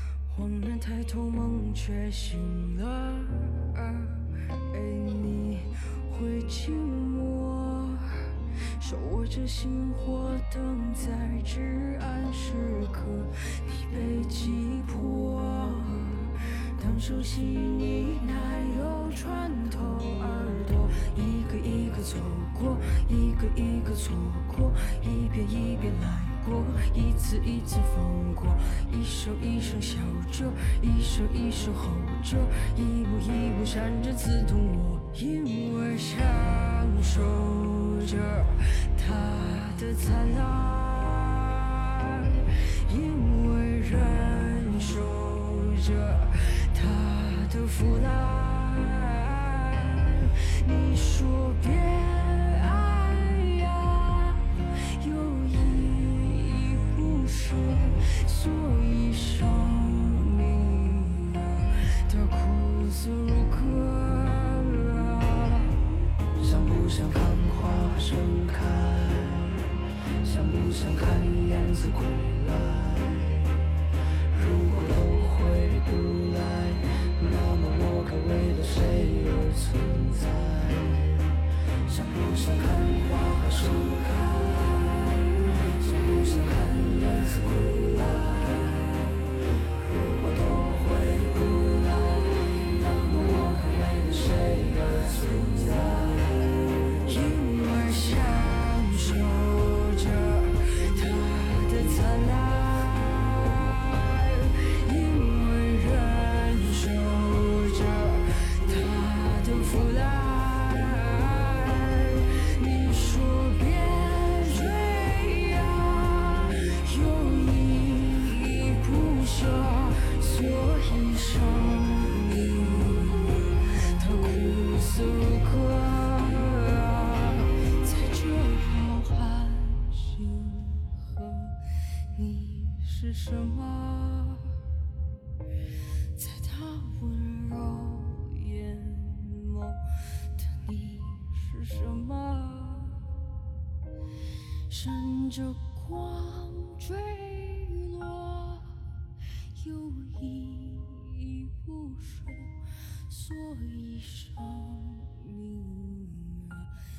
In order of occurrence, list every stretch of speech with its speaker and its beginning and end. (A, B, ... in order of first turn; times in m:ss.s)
0:00.3-1:05.8 A
1:06.4-1:09.6 A
1:10.2-1:13.5 A
1:14.3-1:29.3 A
1:29.8-2:11.6 A
2:12.1-2:14.5 A
2:16.2-2:19.8 A
2:20.4-2:23.0 A
2:24.7-2:28.8 A
2:29.6-2:32.6 A
2:33.1-2:36.7 A